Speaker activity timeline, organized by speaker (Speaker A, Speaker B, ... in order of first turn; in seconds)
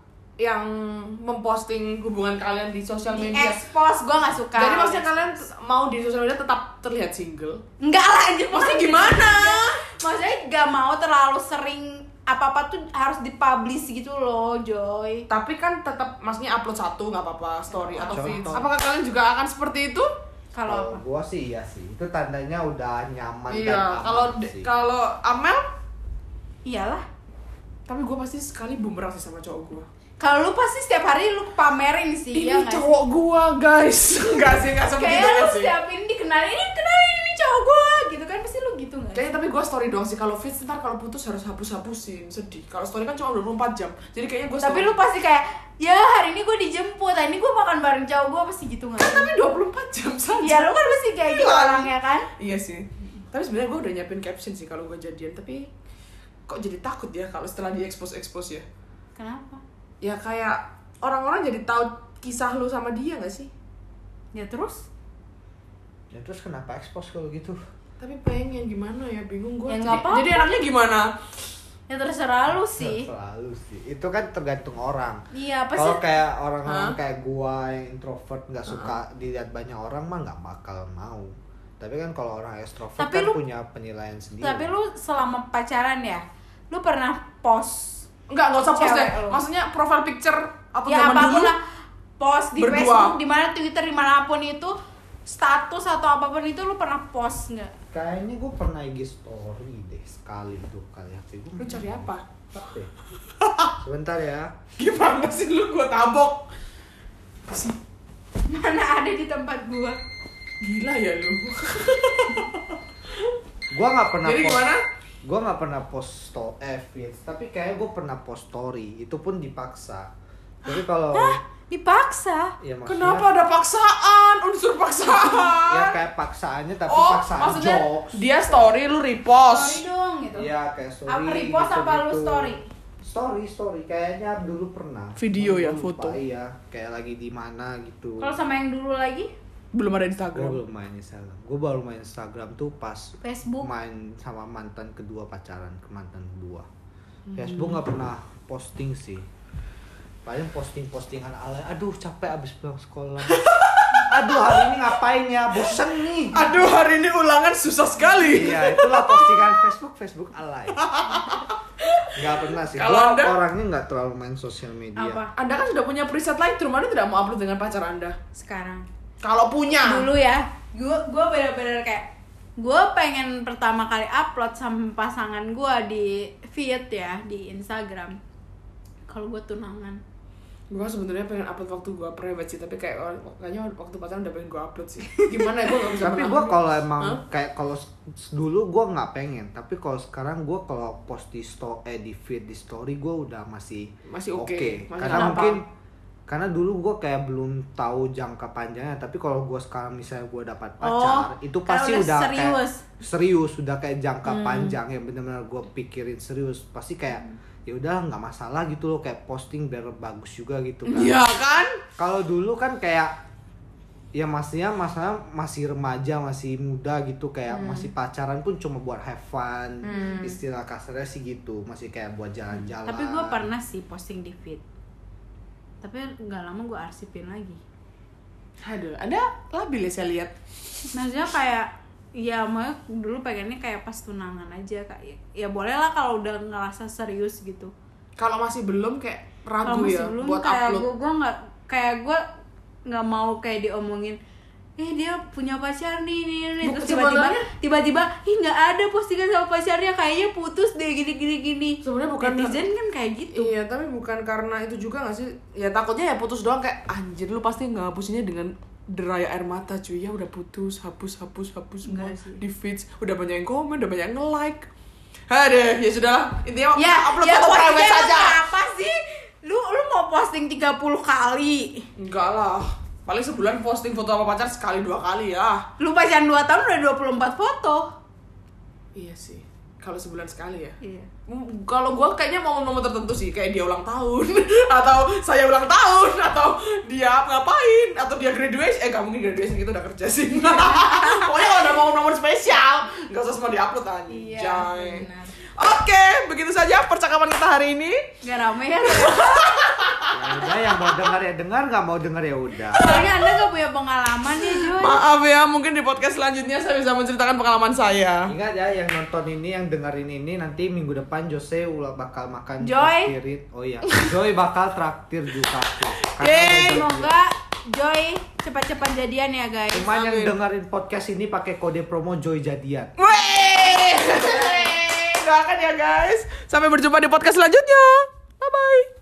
Speaker A: 0.4-3.6, 4.5-7.6, 8.5-9.8, 15.3-20.1, 23.5-25.6, 27.9-29.9, 32.3-35.8, 39.1-44.9, 49.0-55.7, 56.5-58.6, 60.0-63.5, 68.0-71.2, 76.6-77.0, 78.7-79.0, 88.3-91.5, 92.6-93.2, 101.6-102.2, 103.4-103.7, 104.8-106.4, 107.5-107.8, 110.6-113.3, 114.2-114.8, 122.8-125.9, 126.9-129.8, 135.2-136.2, 139.7-140.6, 147.3-147.8, 153.3-154.1, 156.3-159.3, 160.8-163.3, 165.3-168.2, 169.2-170.1, 180.7-187.2, 194.1-195.6, 204.2-204.8, 210.8-211.8, 219.8-220.4, 228.6-230.3, 238.2-240.9, 246.6-247.5, 251.8-252.6, 253.3-264.7, 265.3-268.4, 272.0-275.6, 278.9-295.1, 295.6-298.0, 298.8-300.1, 302.7-303.4, 304.4-308.3, 316.1-316.9, 320.0-320.3, 323.0-328.9
Speaker B: 3.1-5.4, 7.8-15.3, 17.7-18.6, 20.5-21.0, 26.6-27.0, 30.2-32.8, 34.9-39.3, 44.6-49.3, 50.4-52.3, 59.1-59.6, 64.3-64.9, 69.7-70.6, 71.9-73.1, 75.3-76.0, 83.0-83.4, 84.4-88.1, 88.7-89.4, 90.8-91.6, 92.2-97.7, 108.5-110.0, 121.1-122.5, 129.5-130.5, 131.1-132.6, 138.2-139.3, 143.2-143.7, 161.1-161.5, 164.9-165.3, 168.3-168.8, 169.8-178.2, 179.1-180.0, 195.1-195.6, 200.8-202.8, 217.5-217.8, 222.9-224.6, 225.8-227.6, 230.9-237.7, 239.7-242.2, 242.8-244.2, 244.8-253.5, 261.8-262.4, 266.8-271.9, 275.8-277.9, 280.8-281.1, 290.4-291.3, 294.1-295.4, 298.2-299.5, 302.8-305.0, 312.6-313.1, 316.5-320.1, 324.1-324.7
Speaker C: 18.1-18.7, 20.6-24.7, 66.1-67.6, 72.5-75.2, 75.7-84.7, 97.9-102.9, 103.8-104.5, 113.7-114.7, 115.2-120.1, 120.6-121.4, 122.6-123.3, 125.6-128.7, 130.3-138.3, 140.3-146.7, 147.3-149.2, 150.2-153.4, 154.0-156.5, 158.2-160.9, 162.1-165.2, 186.0-195.7, 196.3-211.2, 212.0-213.1, 214.1-223.5, 300.1-302.9, 308.3-317.1, 319.7-322.9